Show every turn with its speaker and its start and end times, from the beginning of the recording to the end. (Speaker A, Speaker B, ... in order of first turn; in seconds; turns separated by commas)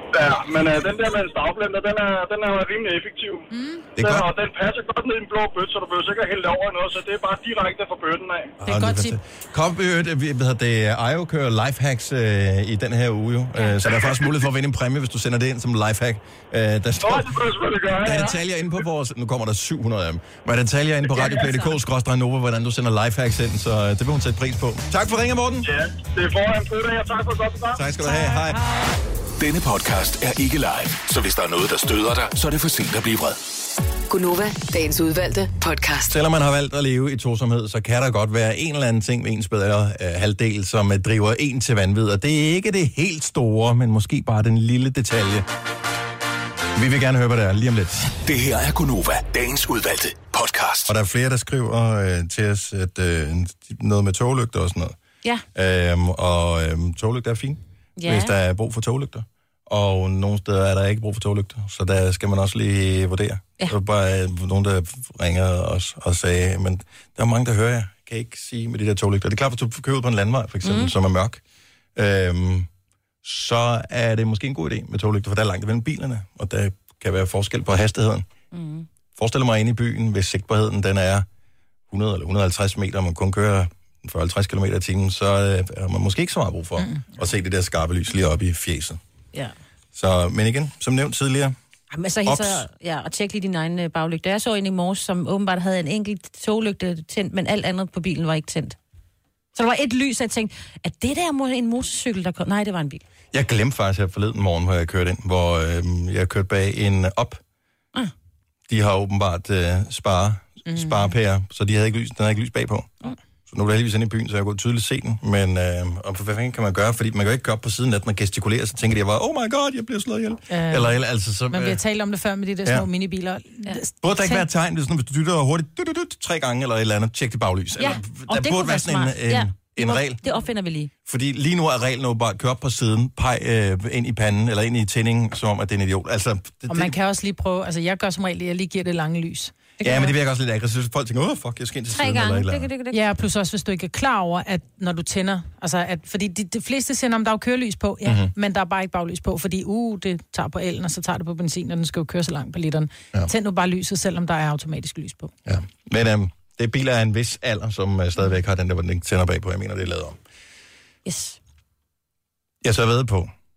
Speaker A: 0.1-8.5, Speaker B: 3.5-3.8, Speaker C: 4.0-4.3, Speaker C: 8.6-25.7, Speaker B: 8.6-9.2, Speaker A: 17.0-18.4, Speaker A: 25.6-27.8, Speaker C: 27.7-28.6, Speaker B: 28.1-28.9, Speaker D: 29.4-33.4, Speaker E: 34.1-36.1, Speaker C: 36.1-45.5, Speaker C: 46.7-48.2, Speaker D: 48.2-50.9, Speaker C: 50.9-55.0, Speaker C: 55.5-71.4, Speaker F: 58.0-58.3, Speaker F: 70.6-70.9, Speaker C: 72.0-72.7, Speaker C: 73.2-78.3, Speaker F: 78.5-78.9, Speaker C: 79.1-81.3, Speaker C: 81.9-89.0, Speaker C: 89.9-91.5, Speaker F: 91.9-98.8, Speaker C: 92.2-92.6, Speaker F: 99.5-103.0, Speaker C: 103.3-107.4, Speaker C: 108.7-112.9, Speaker B: 110.7-111.1, Speaker C: 113.5-121.8, Speaker B: 120.5-120.9, Speaker B: 121.5-124.4, Speaker C: 124.0-130.2, Speaker F: 127.8-130.9, Speaker C: 131.0-136.9, Speaker B: 136.7-139.7, Speaker F: 139.8-140.1, Speaker C: 139.8-142.7, Speaker F: 141.9-143.0, Speaker B: 142.9-155.3, Speaker C: 148.1-148.3, Speaker C: 155.4-160.2, Speaker F: 161.1-161.4, Speaker C: 162.6-163.3